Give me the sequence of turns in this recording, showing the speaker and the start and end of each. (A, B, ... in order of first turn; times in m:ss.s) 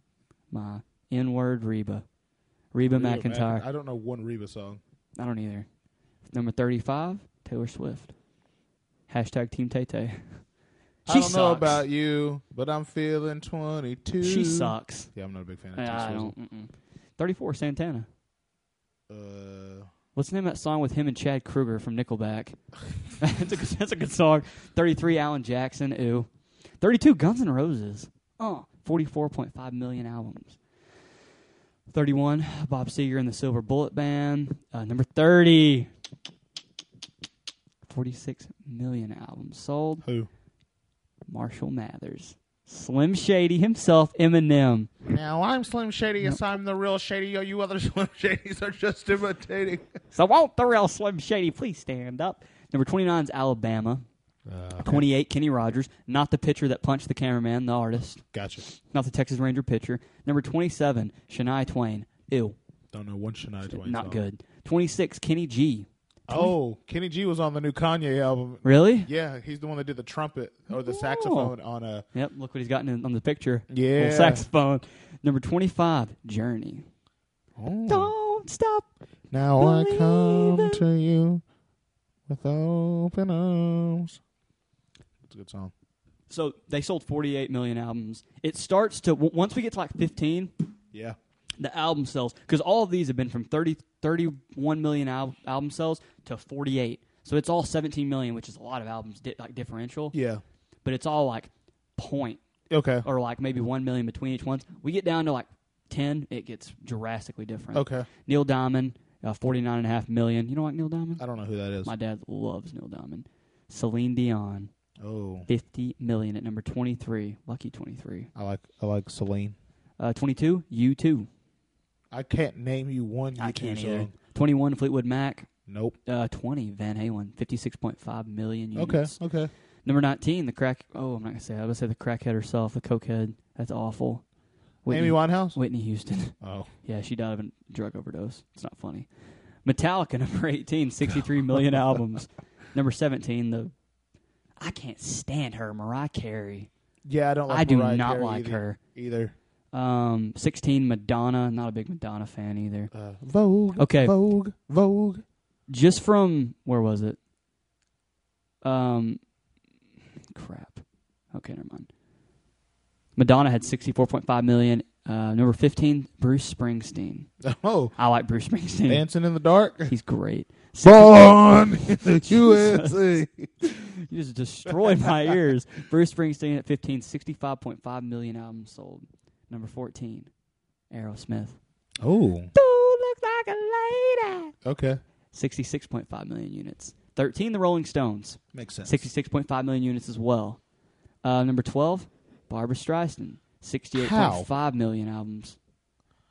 0:00.5-0:02.0 A
0:02.7-0:03.6 A
0:02.9-0:04.8 B
0:05.2-0:05.7 A
0:06.3-0:08.1 A
0:09.1-0:10.4 A
0:11.0-0:11.8 A
0:11.1-0:16.3 B
0:14.2-0:15.1 A
0:15.8-0:18.1 A
0:19.1-0:19.9 B
0:20.1-0:22.6 A
0:23.2-0:26.3 A
0:26.8-0:30.6 A
0:31.9-0:35.9 A
0:37.9-0:40.0 A
0:40.0-0:40.3 B
0:41.3-0:44.9 A
0:45.0-0:50.0 B
0:50.1-0:54.0 A
0:54.4-0:55.0 B
0:54.8-1:02.6 A
0:58.3-0:58.6 B
1:02.9-1:04.2 B
1:03.7-1:06.5 A
1:06.3-1:12.0 B
1:08.6-1:09.1 A
1:10.7-1:11.5 A
1:12.1-1:16.9 A
1:13.7-1:14.4 B
1:17.6-1:18.1 B
1:17.9-1:18.9 A
1:19.3-1:21.4 B
1:19.6-1:20.8 A
1:22.3-1:24.2 B
1:25.3-1:25.7 B
1:26.3-1:30.5 A
1:31.6-1:40.1 A
1:40.1-1:40.4 B
1:40.8-1:42.4 A
1:42.7-1:43.0 B
1:43.0-1:51.2 A
1:47.7-1:48.1 B
1:51.2-1:51.9 B
1:51.8-1:54.7 A
1:55.0-1:55.5 B
1:55.5-1:58.3 A
1:58.4-1:59.5 B
2:00.0-2:01.3 A
2:02.1-2:04.1 B
2:03.4-2:05.5 A
2:05.7-2:06.0 B
2:06.0-2:09.2 A
2:08.8-2:09.5 B
2:09.8-2:14.2 A
2:14.8-2:19.1 A
2:14.9-2:15.6 B
2:16.4-2:16.7 B
2:19.6-2:23.7 A
2:24.6-2:26.7 A
2:27.0-2:29.3 B
2:27.5-2:28.8 A
2:29.7-2:32.9 A
2:32.9-2:35.2 B
2:33.8-2:34.1 A
2:35.7-2:37.2 A
2:38.6-2:39.2 A
2:40.3-2:41.9 A
2:43.2-2:47.3 A
2:47.4-2:47.9 B
2:48.0-2:49.0 A
2:48.9-2:49.9 B
2:49.9-3:00.3 A
2:50.8-2:53.7 B
2:54.7-2:55.3 B
3:00.9-3:01.6 A
3:02.0-3:02.5 B
3:02.5-3:04.5 A
3:04.6-3:05.0 B
3:05.3-3:10.6 A
3:08.5-3:09.0 B
3:11.2-3:15.6 A
3:13.9-3:14.5 B